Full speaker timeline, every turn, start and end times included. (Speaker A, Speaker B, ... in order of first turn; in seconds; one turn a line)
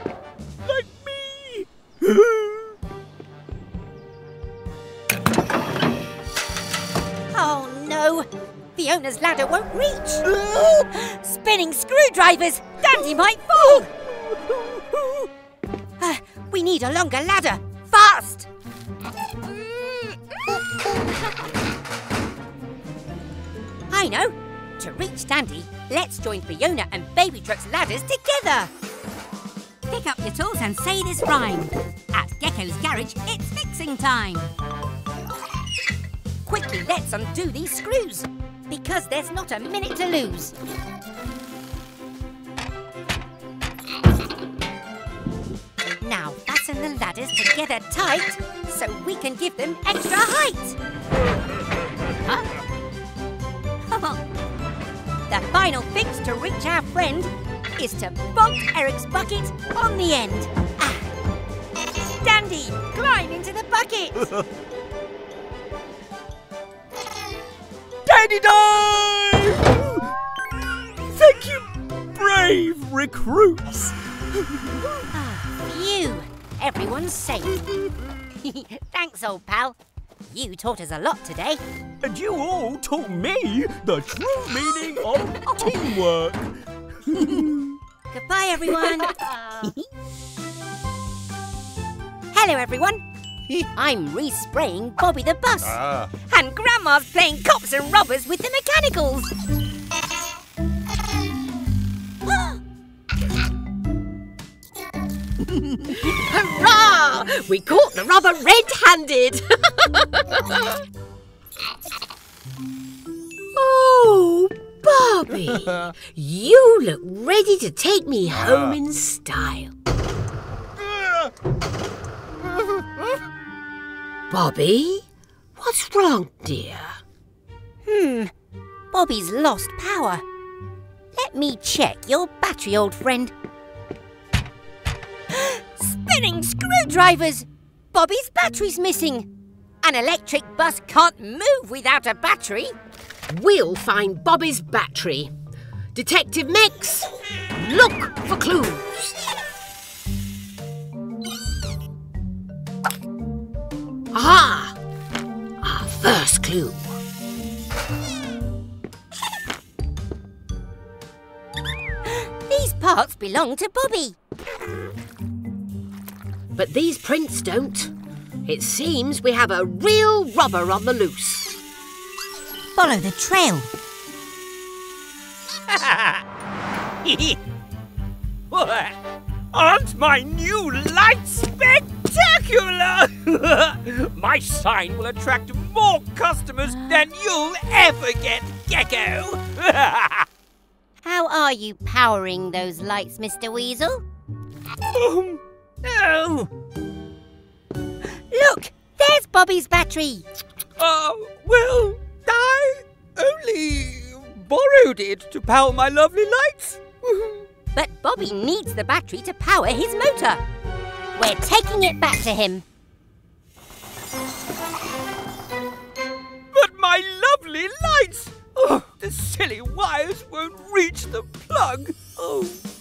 Speaker A: 0.6-2.8
Speaker B: 7.3-10.2
Speaker A: 10.2-10.9
Speaker B: 10.9-13.9
Speaker A: 12.9-15.3
Speaker B: 16.0-18.5
Speaker B: 23.9-28.7
Speaker B: 29.9-34.5
Speaker B: 36.5-40.5
Speaker B: 46.0-50.8
Speaker B: 53.9-54.2
Speaker B: 55.3-61.1
Speaker B: 62.2-64.3
Speaker A: 68.0-70.1
Speaker A: 71.1-74.9
Speaker B: 75.1-77.6
Speaker B: 78.4-79.8
Speaker B: 80.3-81.6
Speaker A: 82.0-87.7
Speaker B: 85.4-85.9
Speaker B: 87.2-87.5
Speaker B: 88.1-89.8
Speaker B: 92.3-93.0
Speaker B: 93.8-99.3
Speaker B: 102.3-102.5
Speaker C: 105.9-110.8
Speaker C: 113.5-119.7
Speaker C: 124.3-125.0
Speaker C: 125.5-127.0
Speaker B: 127.8-128.3
Speaker B: 128.9-130.2
Speaker B: 131.1-133.3
Speaker B: 135.3-139.3
Speaker B: 139.8-142.7
Speaker C: 143.3-145.3
Speaker C: 145.9-149.2
Speaker C: 154.1-154.8
Speaker C: 155.6-156.9
Speaker B: 162.1-164.2
Speaker C: 166.5-167.9
Speaker C: 168.4-171.5
Speaker B: 172.7-173.7
Speaker D: 175.7-176.2
Speaker D: 177.0-177.4
Speaker D: 178.5-179.0
Speaker D: 179.5-190.3
Speaker B: 191.0-194.0
Speaker D: 194.9-196.5
Speaker B: 198.3-200.2
Speaker D: 200.8-207.2
Speaker B: 207.7-210.4
Speaker B: 211.2-212.6
Speaker D: 216.5-222.6